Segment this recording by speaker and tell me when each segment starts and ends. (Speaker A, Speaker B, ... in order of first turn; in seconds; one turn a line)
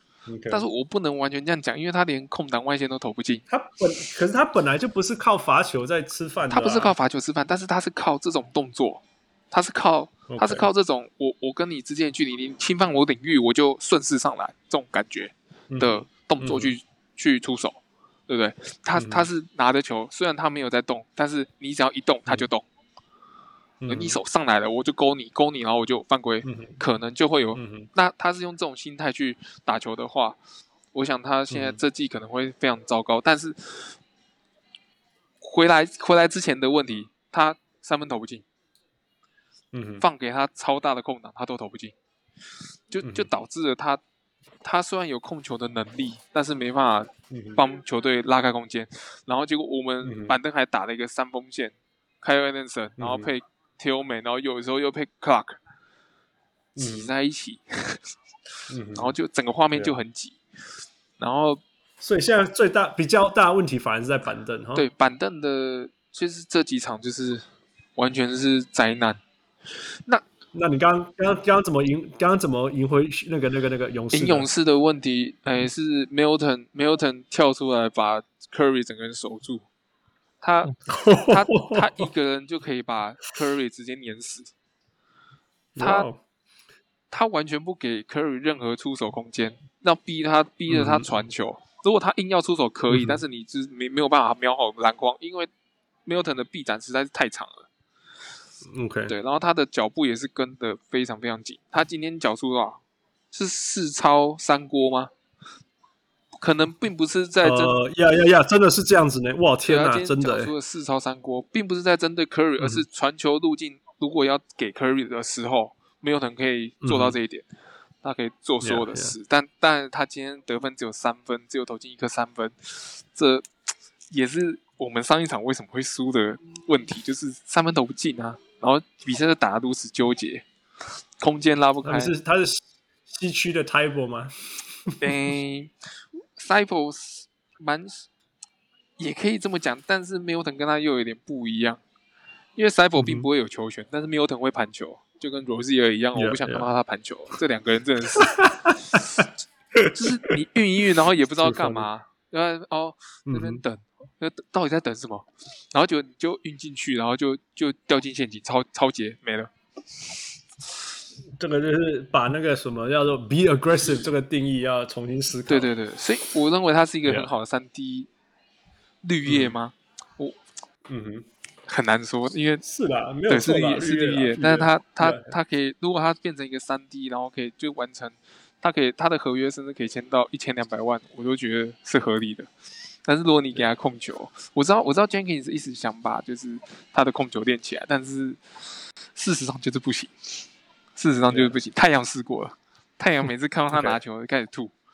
Speaker A: 0.3-0.7
Speaker B: 0.5-3.4
Speaker A: 3.5-7.0
Speaker B: 6.5-22.6
Speaker A: 10.3-10.7
Speaker A: 15.7-16.7
Speaker A: 19.0-19.3
Speaker A: 23.8-24.2
Speaker B: 23.9-30.4
Speaker A: 26.4-26.8
Speaker A: 27.6-27.9
Speaker B: 30.9-34.0
Speaker A: 31.5-31.8
Speaker B: 35.4-38.5
Speaker A: 39.7-40.0
Speaker B: 40.0-41.9
Speaker B: 42.9-44.0
Speaker A: 43.0-43.3
Speaker B: 44.6-55.6
Speaker A: 47.3-47.6
Speaker A: 50.0-50.4
Speaker A: 53.0-53.3
Speaker A: 56.8-57.1
Speaker B: 56.8-58.0
Speaker A: 58.7-59.1
Speaker B: 58.9-60.4
Speaker A: 59.7-60.0
Speaker B: 61.2-61.6
Speaker A: 62.0-64.9
Speaker B: 64.8-67.5
Speaker B: 68.0-69.2
Speaker A: 70.5-74.5
Speaker B: 74.1-79.7
Speaker B: 80.4-84.5
Speaker A: 80.9-82.1
Speaker A: 85.8-86.2
Speaker B: 85.8-86.1
Speaker B: 87.1-95.5
Speaker A: 90.7-91.1
Speaker A: 92.9-93.2
Speaker B: 96.1-97.7
Speaker A: 98.7-99.2
Speaker B: 99.1-102.8
Speaker B: 103.3-105.1
Speaker B: 106.4-107.8
Speaker A: 107.4-110.5
Speaker B: 109.7-117.5
Speaker A: 112.6-112.8
Speaker A: 116.8-117.2
Speaker B: 118.0-123.5
Speaker A: 118.6-119.2
Speaker B: 124.1-130.4
Speaker B: 131.2-132.1
Speaker A: 131.8-135.1
Speaker B: 135.0-135.7
Speaker B: 136.4-138.1
Speaker B: 139.0-141.8
Speaker B: 142.6-149.2
Speaker A: 143.0-143.3
Speaker A: 146.2-146.7
Speaker A: 148.2-149.2
Speaker A: 149.8-150.3
Speaker B: 149.9-159.5
Speaker A: 151.4-151.9
Speaker A: 153.3-153.6
Speaker A: 161.4-165.7
Speaker B: 165.5-168.1
Speaker A: 167.1-167.3
Speaker B: 169.0-170.4
Speaker A: 169.2-169.6
Speaker A: 170.9-171.3
Speaker B: 171.7-172.6
Speaker A: 172.6-175.3
Speaker B: 173.3-182.5
Speaker B: 183.1-188.4
Speaker B: 189.2-190.4
Speaker B: 191.0-194.7
Speaker A: 191.3-191.6
Speaker A: 193.7-194.0